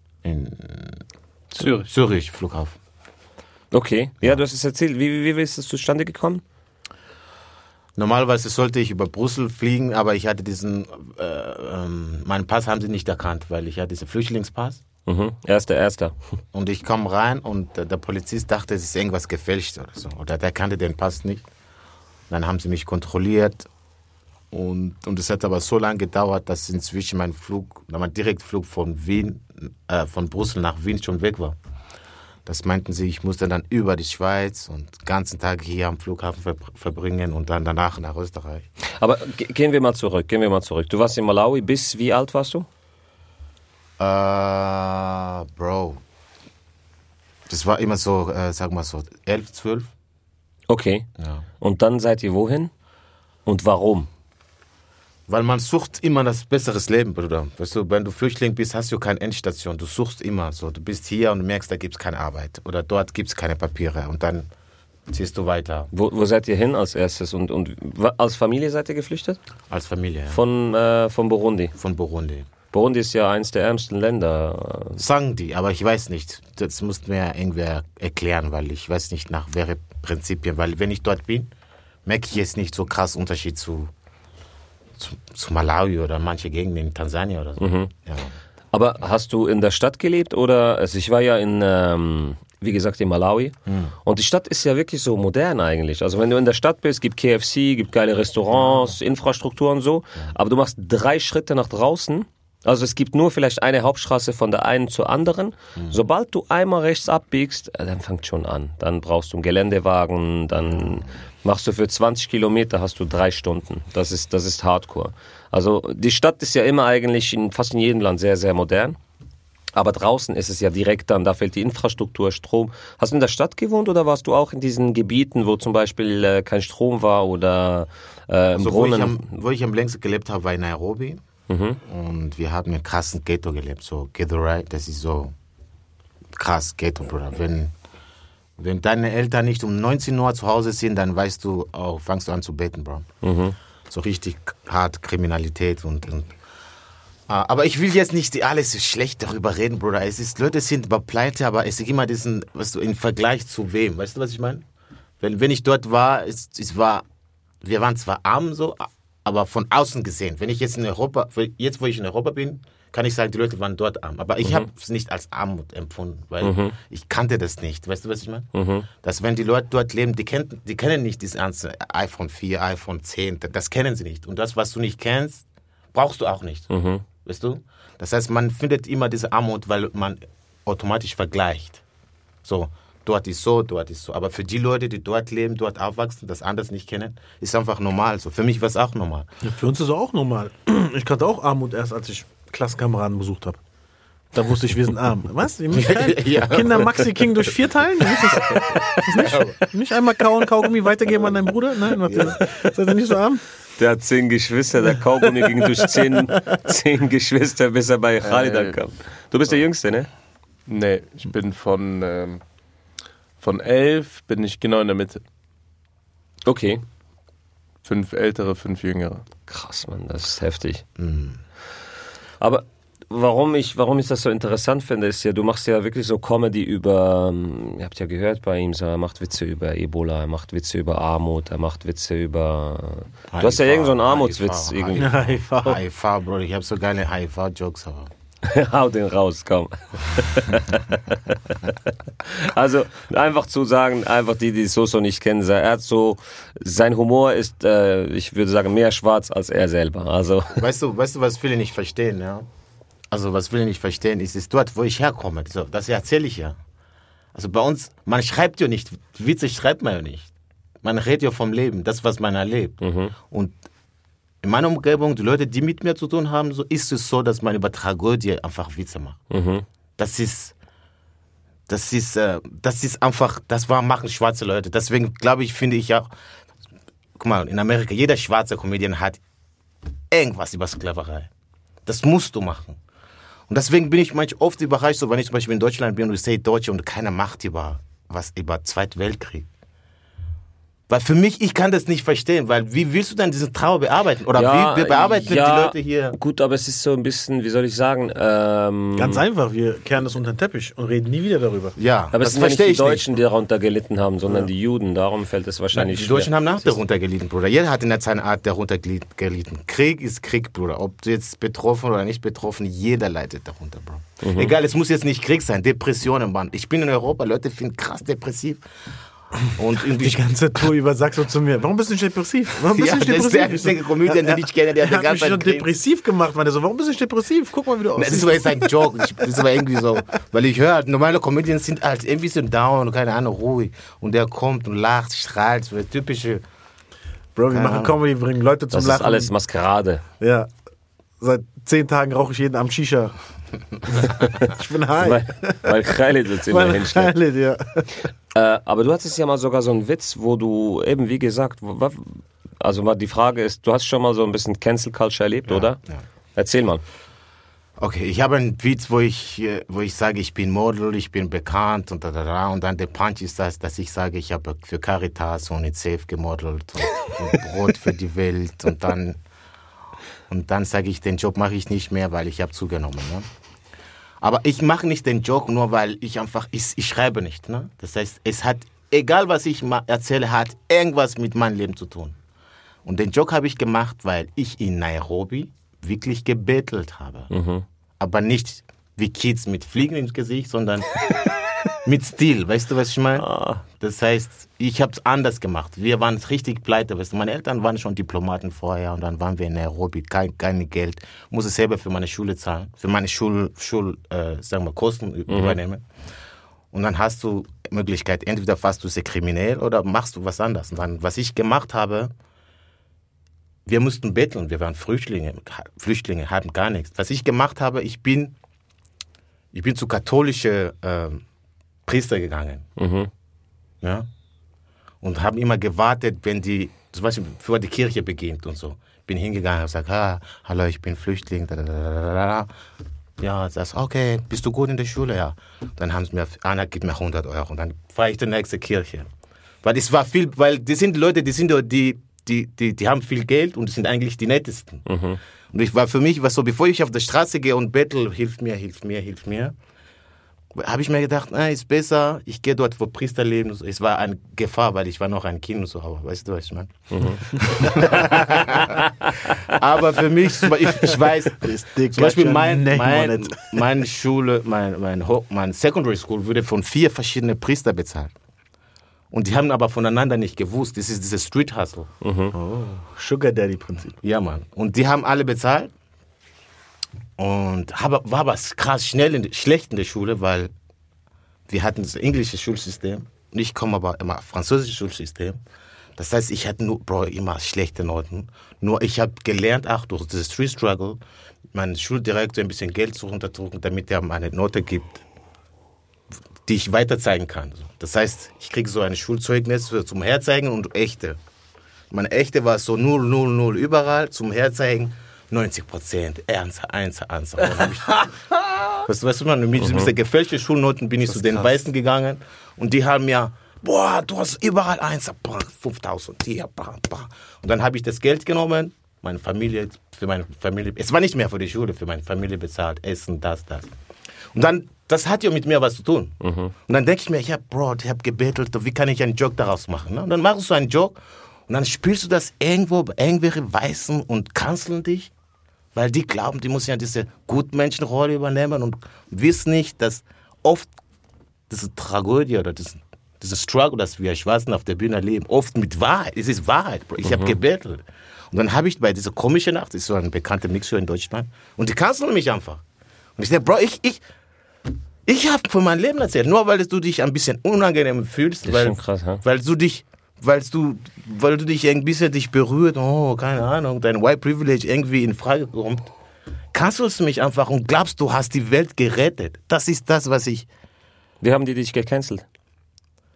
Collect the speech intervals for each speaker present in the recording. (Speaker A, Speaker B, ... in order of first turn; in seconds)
Speaker A: 0.2-1.0, 1.6-2.8, 8.0-14.8, 16.5-21.4, 22.3-23.7, 24.5-31.6, 32.5-38.7, 44.0-46.0, 47.5-49.9, 51.2-51.4, 55.3-64.5, 65.1-65.9, 69.7-70.4, 71.8-72.5, 75.0-81.5, 82.1-83.9, 85.0-88.3, 93.7-93.9, 98.6-98.9, 128.6-131.2, 131.8-135.3, 136.3-137.7, 138.6-143.1, 143.9-146.3, 147.3-154.6, 155.2-157.1, 157.6-168.5, 169.0-176.7, 177.2-181.8, 182.4-189.3, 195.7-197.5, 198.2-199.6, 201.9-202.5, 221.0-221.4, 233.3-238.1, 250.6-252.5, 253.1-256.6, 257.4-260.3, 260.8-263.6, 264.4-269.2, 270.0-270.5, 271.7-276.1, 277.2-279.2, 280.1-281.3, 281.9-282.8, 283.5-289.5, 290.9-296.2, 301.8-303.1, 305.7-318.6, 319.5-320.2, 322.6-325.7, 328.0-336.4, 337.5-337.9, 355.5-356.0, 357.8-369.2, 370.3-373.3, 374.2-382.2, 382.9-387.3, 388.0-391.0, 391.9-393.3, 393.8-405.9, 406.7-412.1, 413.7-418.4, 419.5-421.2, 421.9-422.6, 423.8-424.1, 425.0-432.5, 433.2-439.1, 439.6-444.9, 445.5-449.6, 450.6-468.1, 469.1-471.9, 474.0-475.7, 477.2-480.5, 481.5-485.4, 486.0-491.0, 491.5-495.0, 496.4-501.2, 501.9-508.1, 508.8-523.7, 524.3-531.0, 531.5-535.1, 535.7-540.7, 541.5-552.6, 553.2-554.0, 555.1-565.9, 566.5-570.5
Speaker B: 1.6-1.9, 208.2-208.8, 210.7-212.4, 213.4-215.2, 217.8-219.2
Speaker C: 3.7-6.4, 15.1-16.1, 39.0-42.7, 50.7-51.1, 51.6-52.7, 53.5-54.1, 65.9-69.4, 70.3-71.7, 72.7-75.0, 87.6-87.9, 88.7-119.0, 119.8-129.3, 131.5-131.8, 143.2-143.6, 164.4-164.7, 166.4-166.8, 168.5-168.9, 176.7-177.0, 203.8-210.1, 216.4-216.8, 219.5-220.8, 222.4-235.2, 238.4-241.7, 242.2-250.6, 262.8-263.1, 269.3-269.6, 294.4-299.2, 302.1-306.8, 314.2-314.5, 338.7-340.0, 345.0-347.1, 348.3-355.8, 356.4-356.8, 387.3-387.6, 393.2-393.6, 405.3-405.6, 422.8-423.1, 444.9-445.2, 472.0-472.4, 509.6-509.9, 526.2-526.5, 547.0-547.4, 558.5-559.2, 571.2-572.2
Speaker D: 189.4-193.6, 194.3-203.4, 205.8-206.3, 235.0-235.8, 298.9-301.8, 320.0-329.5, 337.4-339.3, 340.2-340.5, 341.2-343.1, 343.9-345.9, 346.5-347.9, 461.3-463.7, 472.3-473.9